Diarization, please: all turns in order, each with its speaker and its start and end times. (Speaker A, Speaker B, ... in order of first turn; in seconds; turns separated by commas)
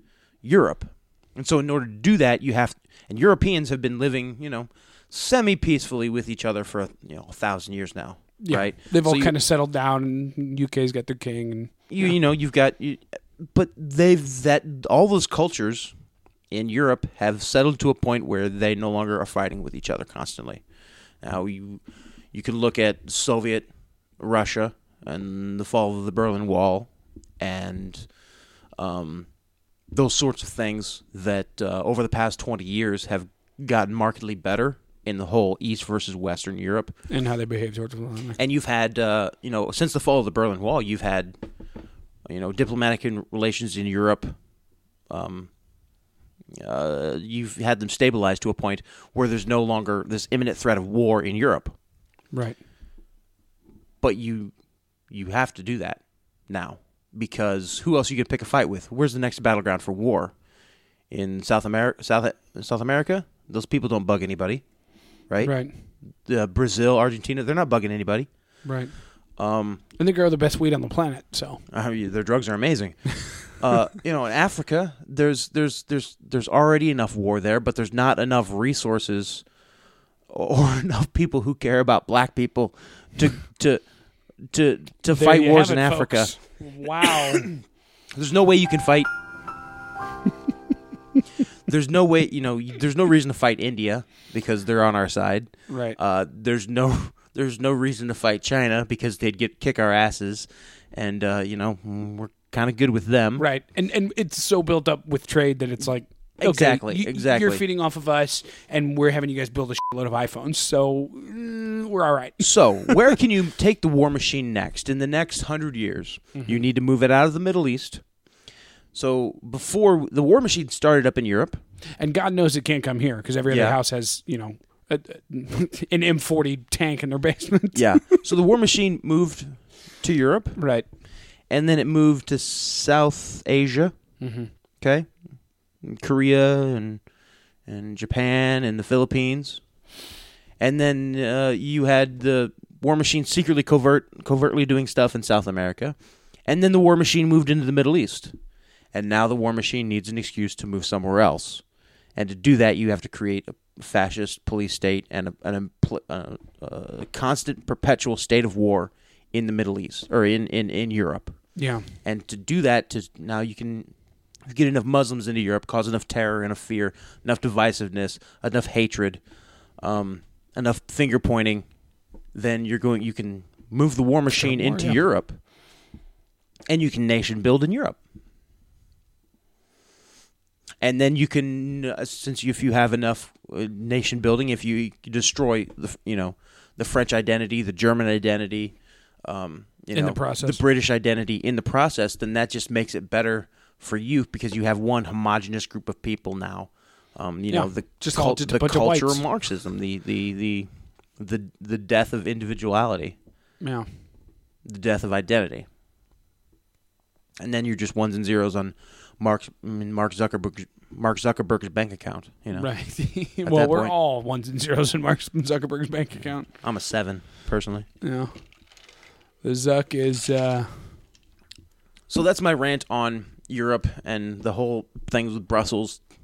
Speaker A: 0.4-9.3, Speaker B: 8.4-12.1, Speaker A: 11.9-15.9, Speaker A: 16.5-20.6, Speaker A: 21.2-26.9, Speaker A: 27.4-28.1, Speaker A: 28.8-29.3, Speaker A: 29.9-36.9, Speaker B: 37.1-38.4, Speaker A: 38.4-41.4, Speaker A: 42.2-44.4, Speaker A: 45.1-45.5, Speaker A: 46.5-51.7, Speaker B: 52.3-52.6, Speaker A: 54.0-54.5, Speaker A: 55.1-60.3, Speaker A: 61.1-64.6, Speaker A: 65.3-65.6, Speaker B: 65.4-65.7, Speaker A: 66.2-68.3, Speaker B: 68.6-68.9, Speaker A: 69.4-69.8, Speaker B: 70.0-71.6, Speaker A: 71.7-79.4, Speaker A: 80.3-83.8, Speaker A: 84.5-86.5, Speaker B: 85.1-87.5, Speaker A: 87.0-87.5, Speaker A: 88.1-89.1, Speaker A: 91.7-103.5, Speaker B: 95.7-96.0, Speaker B: 103.4-113.0, Speaker A: 106.4-107.6, Speaker A: 112.4-118.0, Speaker B: 116.3-116.6, Speaker A: 118.9-121.6, Speaker B: 122.0-128.2, Speaker A: 123.5-123.8, Speaker A: 127.7-130.6, Speaker B: 130.6-130.8, Speaker A: 131.5-133.9, Speaker B: 134.2-134.5, Speaker A: 134.8-135.1, Speaker A: 135.8-137.0, Speaker A: 137.7-139.6, Speaker A: 140.6-148.3, Speaker A: 148.9-151.6, Speaker A: 152.1-161.4, Speaker B: 161.6-161.8, Speaker A: 162.0-163.9, Speaker A: 164.4-169.2, Speaker A: 169.8-171.7, Speaker A: 172.3-175.4, Speaker B: 174.3-175.0, Speaker A: 176.7-178.0, Speaker A: 180.8-203.2, Speaker B: 189.9-190.6, Speaker B: 197.5-199.2, Speaker B: 203.6-203.9, Speaker A: 204.6-205.7, Speaker A: 207.4-212.8, Speaker B: 212.5-216.5, Speaker A: 213.4-213.9, Speaker A: 216.5-217.9, Speaker B: 218.0-218.3, Speaker B: 219.4-220.9, Speaker A: 222.1-226.0